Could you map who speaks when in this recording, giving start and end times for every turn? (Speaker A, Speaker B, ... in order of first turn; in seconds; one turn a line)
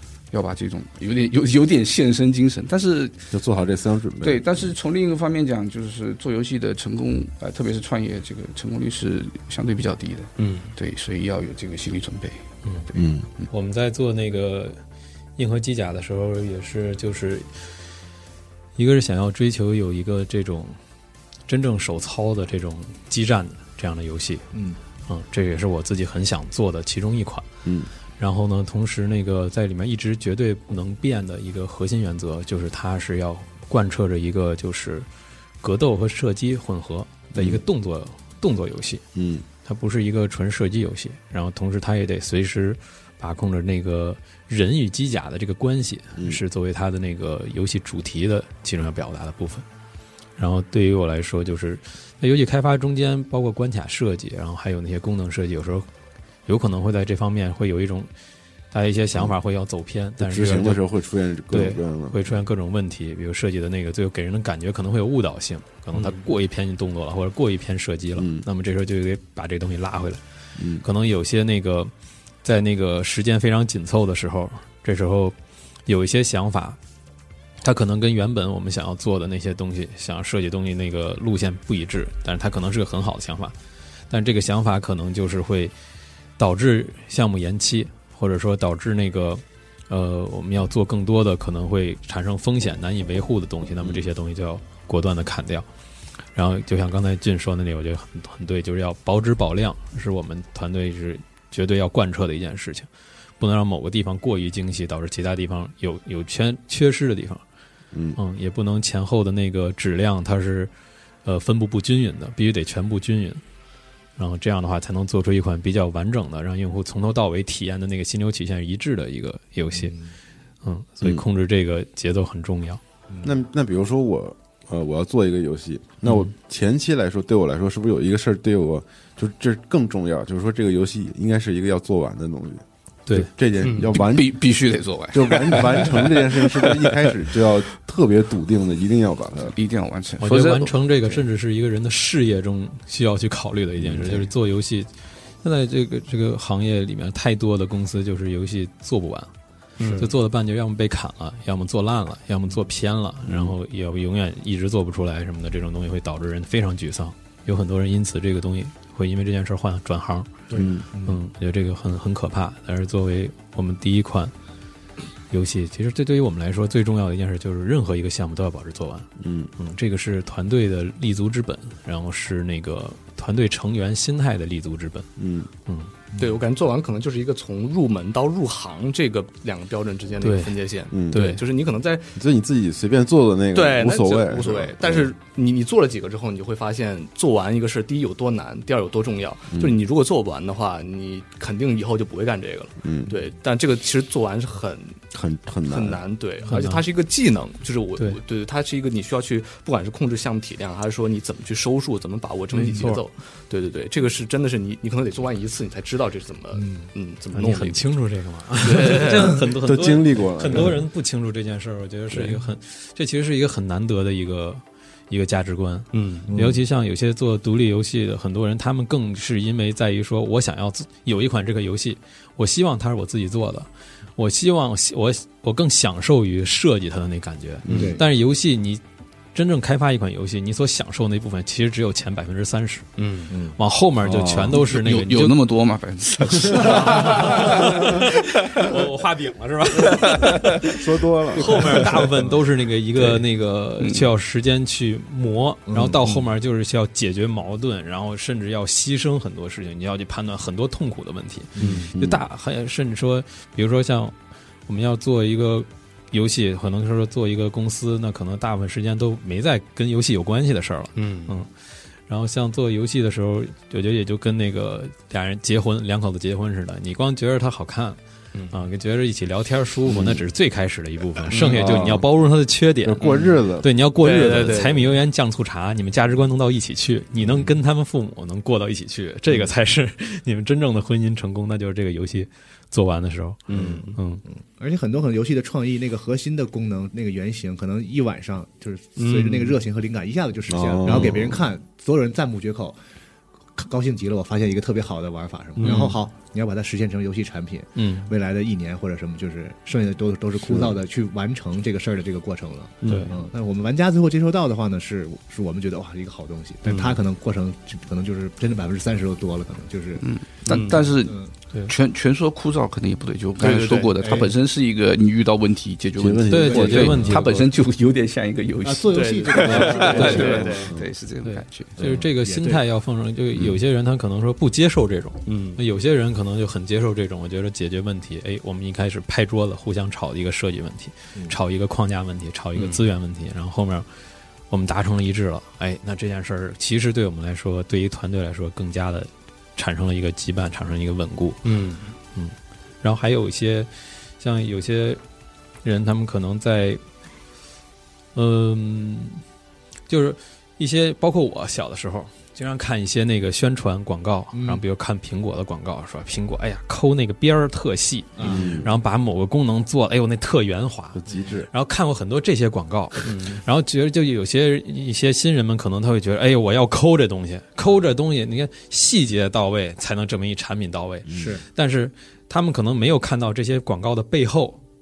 Speaker A: 0.3-3.1
Speaker B: 3.3-4.7
Speaker A: 4.2-13.5
Speaker C: 10.4-10.7
Speaker D: 12.6-12.9
Speaker B: 12.9-13.2
Speaker D: 13.5-14.8
Speaker D: 15.3-17.5
Speaker D: 18.8-20.8
Speaker D: 21.5-24.4
Speaker E: 24.5-24.8
Speaker D: 25.1-27.5
Speaker D: 28.2-35.1
Speaker D: 35.6-49.6
Speaker B: 37.3-37.6
Speaker B: 39.1-39.4
Speaker D: 50.4-55.9
Speaker D: 56.5-58.1
Speaker D: 58.7-60.8
Speaker B: 60.2-62.3
Speaker D: 61.5-70.2
Speaker B: 68.2-68.5
Speaker B: 70.6-70.8
Speaker D: 70.8-71.9
Speaker D: 72.4-76.8
Speaker D: 77.6-83.5
Speaker D: 84.1-85.7
Speaker D: 86.4-95.7
Speaker B: 93.8-94.1
Speaker D: 96.3-107.4
Speaker B: 107.9-108.2
Speaker D: 108.1-110.7
Speaker D: 111.2-113.4
Speaker D: 114.2-120.0
Speaker E: 119.7-120.1
Speaker D: 120.6-122.8
Speaker B: 123.2-134.4
Speaker C: 133.6-133.9
Speaker A: 133.9-137.1
Speaker B: 135.1-139.5
Speaker A: 139.5-141.2
Speaker D: 140.2-144.9
Speaker B: 143.8-144.2
Speaker D: 145.4-149.3
Speaker C: 149.8-150.1
Speaker D: 149.9-160.4
Speaker B: 153.2-153.5
Speaker E: 160.5-161.2
Speaker B: 160.6-160.8
Speaker D: 160.9-164.3
Speaker D: 165.3-175.1
Speaker B: 169.2-169.5
Speaker B: 175.2-175.5
Speaker C: 176.2-182.1
Speaker D: 180.2-180.6
Speaker B: 180.9-181.4
Speaker D: 181.1-181.4
Speaker B: 182.1-185.1
Speaker C: 183.5-195.0
Speaker B: 189.5-189.8
Speaker B: 192.8-193.1
Speaker B: 195.1-196.0
Speaker C: 195.7-207.8
Speaker D: 196.5-196.8
Speaker D: 202.5-203.0
Speaker E: 206.5-206.9
Speaker D: 207.3-228.8
Speaker C: 208.6-209.5
Speaker B: 209.6-210.8
Speaker C: 212.1-212.4
Speaker C: 215.9-216.3
Speaker E: 216.3-216.6
Speaker B: 227.6-228.0
Speaker E: 227.7-228.0
Speaker D: 229.3-232.9
Speaker C: 233.0-233.3
Speaker E: 233.3-233.6
Speaker D: 233.6-235.4
Speaker B: 234.0-234.6
Speaker A: 234.6-238.8
Speaker D: 236.6-254.2
Speaker A: 239.8-240.4
Speaker B: 240.7-241.9
Speaker A: 243.8-244.1
Speaker E: 245.7-246.0
Speaker E: 251.6-251.8
Speaker C: 251.6-251.9
Speaker B: 251.9-252.2
Speaker D: 254.7-261.5
Speaker C: 260.9-261.4
Speaker D: 262.1-268.0
Speaker D: 268.5-284.2
Speaker B: 269.9-270.2
Speaker C: 271.3-271.9
Speaker B: 271.5-272.1
Speaker B: 272.8-273.7
Speaker C: 273.0-273.4
Speaker C: 274.0-274.9
Speaker C: 283.5-283.9
Speaker E: 283.5-292.8
Speaker C: 289.0-289.6
Speaker B: 290.5-291.4
Speaker E: 293.6-310.1
Speaker C: 295.6-296.0
Speaker D: 295.6-295.9
Speaker D: 297.7-298.1
Speaker B: 300.5-300.8
Speaker C: 302.8-303.1
Speaker D: 302.8-303.1
Speaker C: 306.6-307.0
Speaker A: 310.0-321.8
Speaker C: 310.4-310.9
Speaker E: 311.0-311.3
Speaker C: 313.4-314.1
Speaker E: 314.0-314.3
Speaker B: 316.0-317.4
Speaker D: 316.3-317.4
Speaker E: 316.5-317.1
Speaker E: 318.6-320.7
Speaker C: 318.9-320.7
Speaker B: 319.5-320.9
Speaker D: 321.2-333.9
Speaker E: 321.8-322.6
Speaker C: 325.3-325.6
Speaker C: 332.6-332.8
Speaker D: 334.5-341.4
Speaker C: 341.4-341.9
Speaker D: 342.1-345.0
Speaker D: 345.6-346.8
Speaker D: 348.1-349.2
Speaker D: 349.9-374.6
Speaker E: 354.3-354.6
Speaker E: 358.1-358.4
Speaker B: 358.2-358.7
Speaker B: 360.9-361.5
Speaker C: 363.1-363.4
Speaker E: 371.1-371.4